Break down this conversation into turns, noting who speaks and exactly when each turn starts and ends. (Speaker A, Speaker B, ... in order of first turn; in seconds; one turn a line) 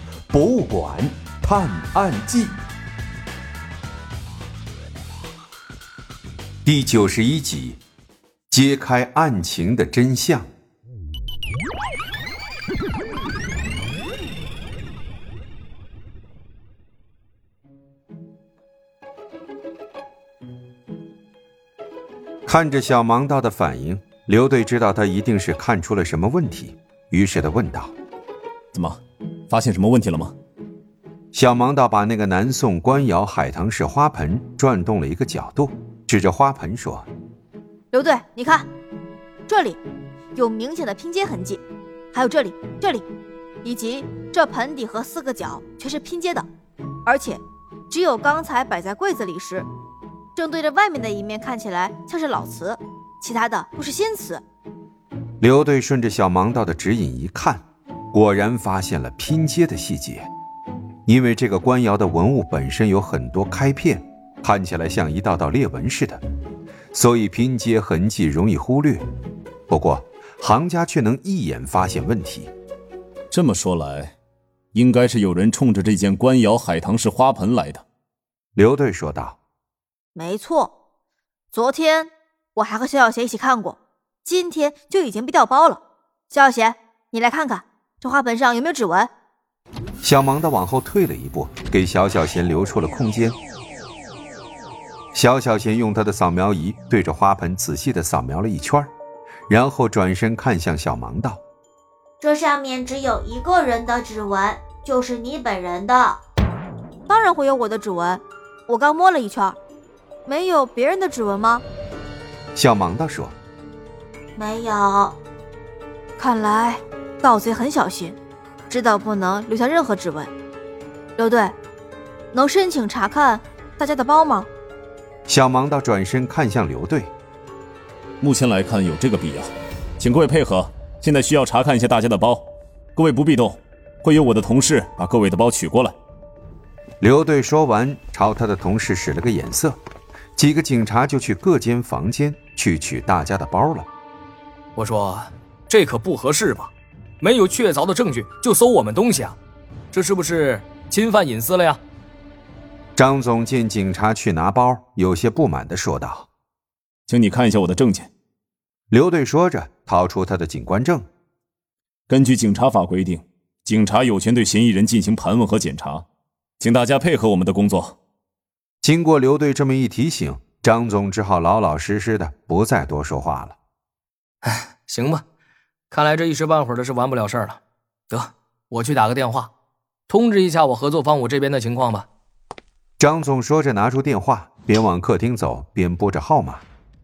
Speaker A: 0.3-2.5
Speaker A: 6.6-7.8
Speaker A: 8.5-10.4
Speaker A: 22.5-27.9
Speaker B: 29.5-30.3
Speaker A: 31.3-37.1
Speaker C: 37.9-38.7
Speaker C: 39.5-39.8
Speaker C: 40.3-41.6
Speaker C: 42.1-43.0
Speaker C: 43.6-46.5
Speaker C: 47.0-49.7
Speaker C: 50.4-54.4
Speaker A: 55.4-60.3
Speaker A: 61.0-66.2
Speaker A: 66.9-69.0
Speaker A: 69.7-72.5
Speaker B: 73.3-74.2
Speaker B: 74.7-77.8
Speaker A: 78.5-79.4
Speaker C: 80.1-80.7
Speaker C: 81.5-89.1
Speaker A: 90.0-93.3
Speaker A: 95.1-98.9
Speaker A: 99.5-101.4
Speaker D: 102.2-106.2
Speaker C: 107.1-109.6
Speaker C: 110.2-111.6
Speaker A: 112.5-113.3
Speaker D: 114.4-115.2
Speaker C: 116.2-118.2
Speaker C: 118.7-120.3
Speaker C: 121.2-121.5
Speaker C: 122.3-124.5
Speaker A: 125.3-127.1
Speaker B: 128.2-135.9
Speaker A: 137.0-139.8
Speaker A: 140.4-143.9
Speaker E: 144.8-149.4
Speaker E: 149.9-151.8
Speaker A: 152.9-156.3
Speaker B: 157.1-158.1
Speaker A: 158.9-161.1
Speaker B: 162.1-166.1
Speaker B: 166.6-168.0
Speaker A: 168.8-173.6
Speaker E: 174.4-175.2
Speaker E: 175.9-179.5
Speaker E: 180.1-182.1
Speaker A: 183.0-186.6